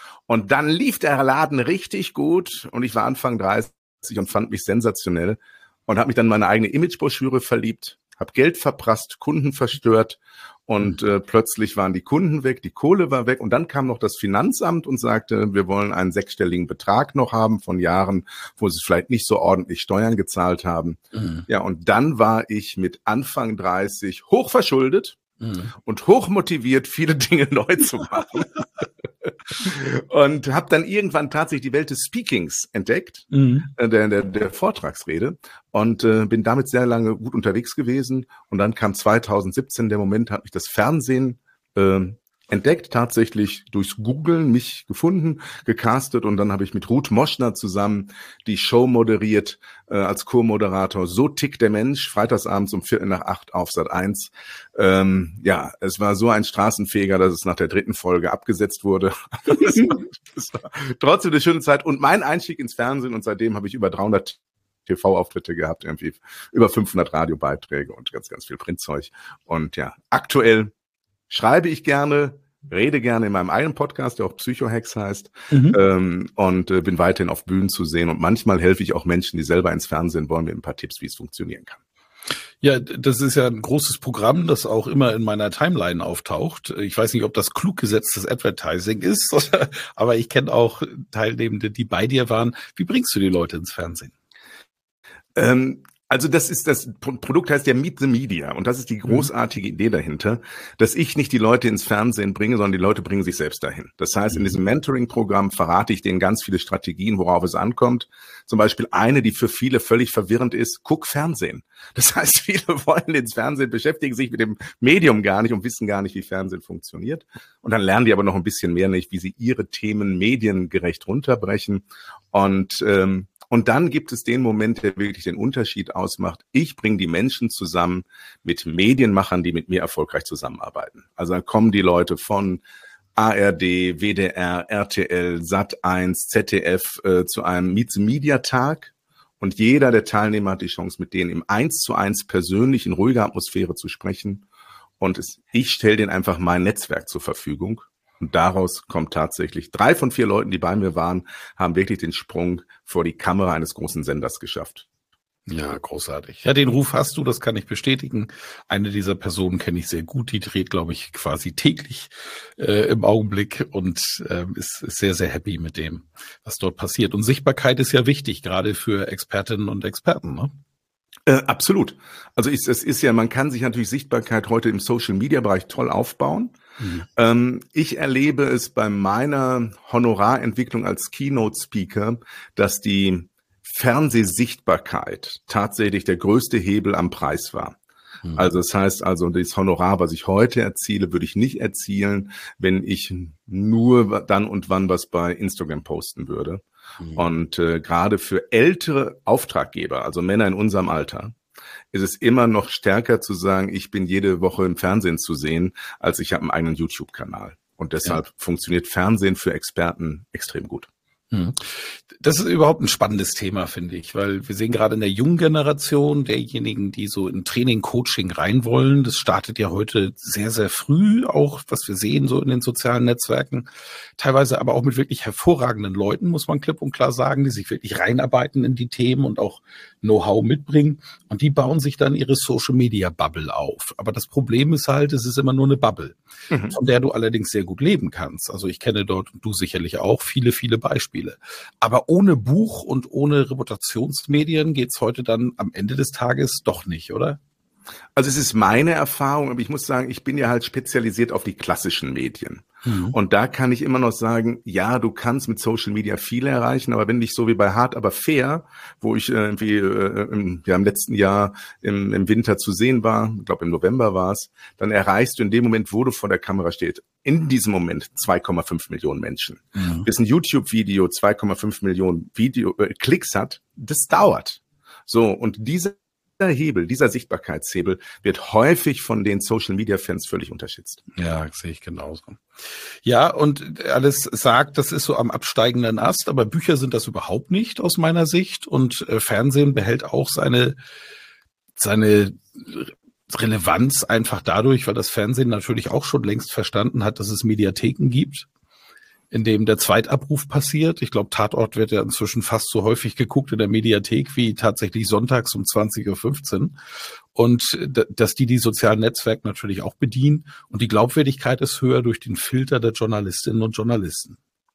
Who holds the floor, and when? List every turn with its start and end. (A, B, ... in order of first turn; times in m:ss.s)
0:00.3-0:25.2 A
0:21.1-0:21.4 B
0:25.4-0:25.7 B
0:25.8-0:28.5 A
0:29.6-1:10.7 A
0:33.3-0:33.7 B
1:11.3-1:21.8 A
1:15.5-1:15.8 B
1:22.6-1:34.1 B
1:35.3-2:12.6 A
2:13.2-2:24.4 A
2:25.0-2:34.8 A
2:35.5-2:50.5 B
2:51.3-2:56.5 A
2:56.8-2:57.0 B
2:57.2-3:07.8 A
3:08.4-3:16.6 A
3:17.2-3:21.4 A
3:21.9-3:30.9 A
3:31.3-3:31.7 B
3:32.2-3:56.2 B
3:56.5-3:56.8 A
3:56.7-4:07.4 B
4:08.2-4:41.0 A
4:12.8-4:13.2 B
4:29.8-4:30.0 B
4:41.1-4:42.4 B
4:43.0-4:50.8 B
4:51.8-4:58.5 B
4:59.3-5:06.8 B
5:07.3-5:14.4 B